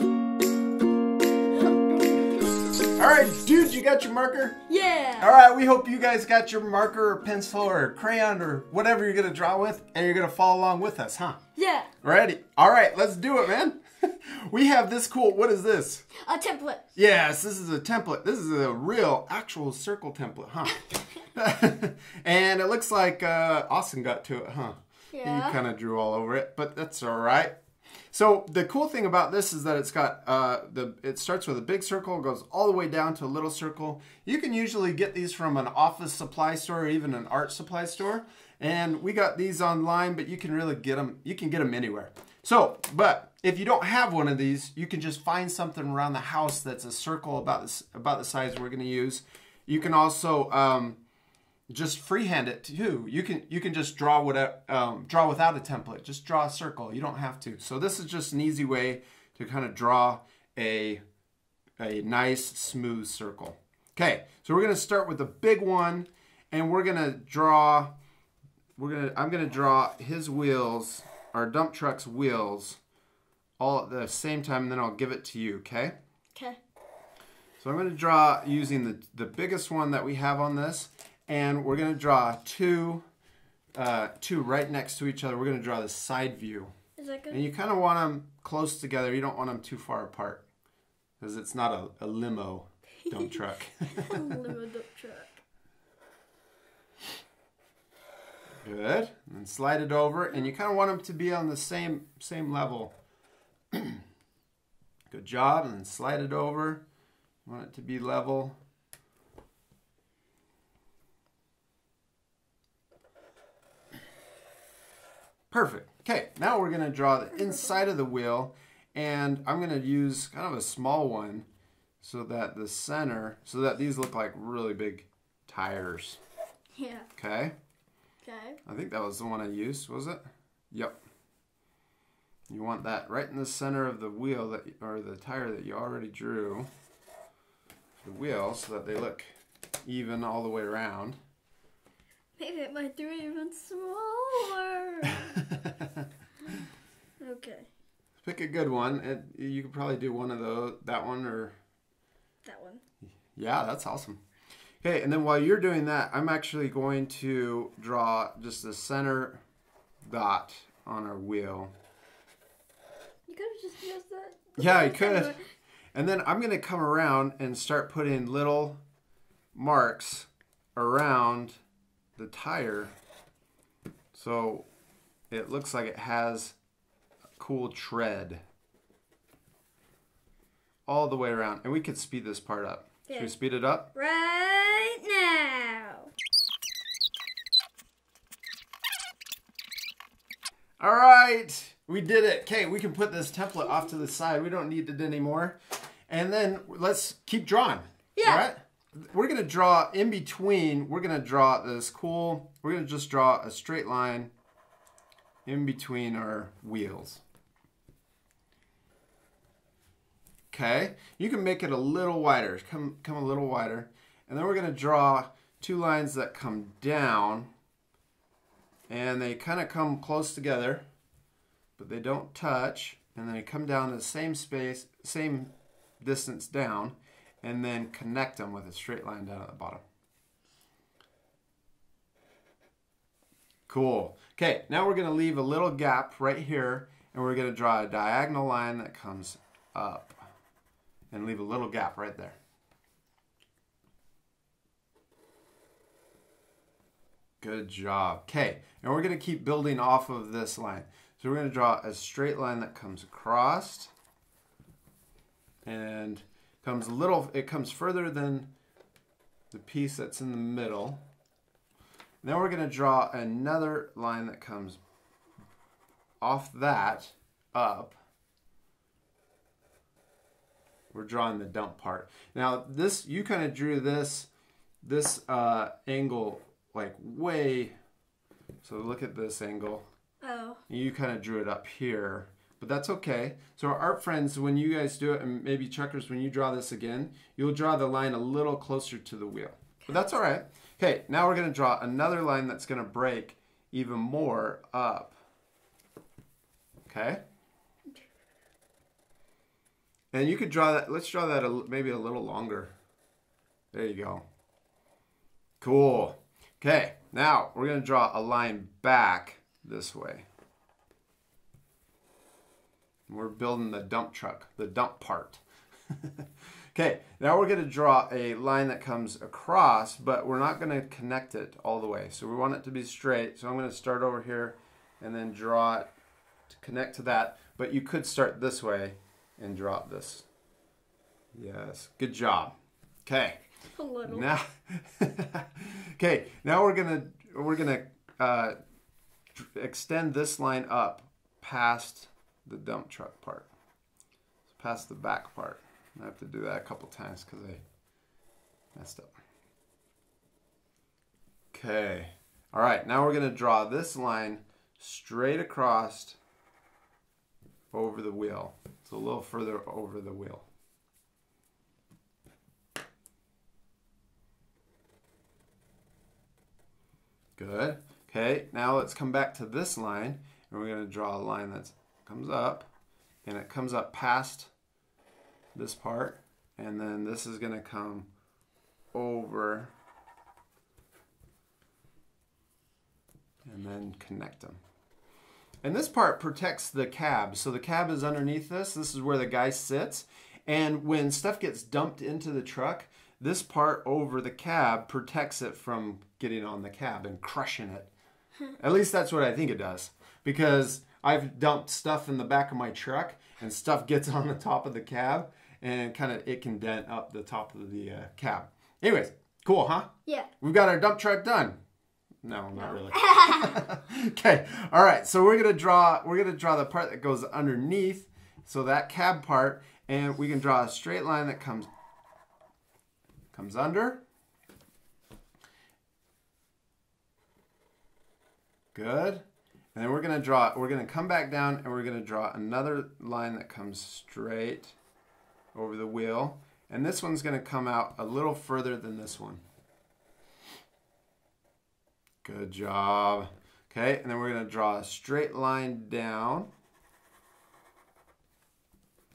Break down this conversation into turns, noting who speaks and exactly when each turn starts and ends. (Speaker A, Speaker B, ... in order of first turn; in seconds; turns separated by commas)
Speaker A: 2.9-4.6, Speaker B: 4.7-5.3, Speaker A: 5.2-11.4, Speaker B: 11.6-11.9, Speaker A: 12.0-16.1, Speaker B: 16.2-16.8, Speaker A: 16.9-27.5, Speaker B: 25.1-25.6, Speaker A: 28.1-51.0, Speaker A: 51.7-61.0, Speaker A: 61.8-67.9, Speaker A: 68.8-72.8, Speaker A: 73.6-75.9, Speaker A: 77.6-83.0, Speaker A: 83.7-86.7, Speaker B: 87.0-87.4, Speaker A: 87.3-90.4, Speaker A: 91.2-94.5, Speaker B: 93.0-95.3, Speaker A: 98.6-102.9, Speaker A: 103.7-104.0, Speaker A: 105.1-106.8, Speaker A: 107.4-108.6, Speaker A: 115.5-121.5, Speaker B: 117.3-117.8, Speaker A: 122.0-126.2, Speaker B: 126.8-127.1, Speaker A: 127.2-127.5, Speaker B: 128.2-128.6, Speaker A: 128.7-131.0, Speaker A: 132.5-136.7, Speaker A: 138.0-139.3, Speaker A: 139.8-141.2, Speaker B: 142.4-145.3, Speaker A: 145.1-146.0, Speaker B: 147.2-147.7, Speaker A: 148.2-151.5, Speaker B: 152.4-152.8, Speaker A: 153.3-154.2, Speaker A: 154.8-159.4, Speaker A: 160.0-161.7, Speaker B: 163.3-165.4, Speaker A: 164.6-165.3, Speaker A: 165.9-168.8, Speaker A: 169.5-171.6, Speaker A: 172.2-172.9, Speaker A: 174.1-174.7, Speaker A: 175.3-176.6, Speaker A: 177.4-178.4, Speaker A: 180.8-183.9, Speaker B: 183.1-183.3, Speaker B: 183.9-186.1, Speaker A: 190.8-204.3, Speaker B: 198.2-198.4, Speaker A: 205.4-207.2, Speaker A: 210.5-217.5, Speaker A: 218.9-220.8, Speaker A: 221.8-229.8, Speaker A: 233.7-240.2, Speaker A: 241.1-242.3, Speaker A: 247.4-253.9, Speaker A: 255.7-258.5, Speaker A: 259.5-261.0, Speaker A: 262.2-264.8, Speaker A: 266.2-267.9, Speaker A: 270.9-274.3, Speaker A: 274.8-277.7, Speaker A: 278.6-279.9, Speaker B: 280.2-280.6, Speaker A: 280.7-295.1, Speaker A: 296.9-297.2, Speaker A: 300.1-302.7, Speaker A: 303.7-304.2, Speaker A: 305.6-310.2, Speaker A: 313.1-325.9, Speaker A: 326.5-330.2, Speaker A: 331.3-332.5, Speaker A: 333.1-333.4, Speaker B: 333.7-334.3, Speaker A: 334.0-338.5, Speaker A: 339.4-343.5, Speaker A: 344.5-347.6, Speaker A: 348.7-349.1, Speaker A: 351.5-356.2, Speaker A: 357.7-360.4, Speaker A: 367.4-372.7, Speaker A: 373.2-374.5, Speaker A: 375.5-378.1, Speaker A: 378.9-379.7, Speaker A: 383.4-384.6, Speaker A: 385.6-397.9, Speaker A: 398.6-411.6, Speaker A: 412.2-421.7, Speaker B: 412.5-413.6, Speaker A: 423.3-424.0, Speaker A: 428.7-429.2, Speaker A: 429.7-434.8, Speaker A: 435.5-439.4, Speaker A: 442.2-446.5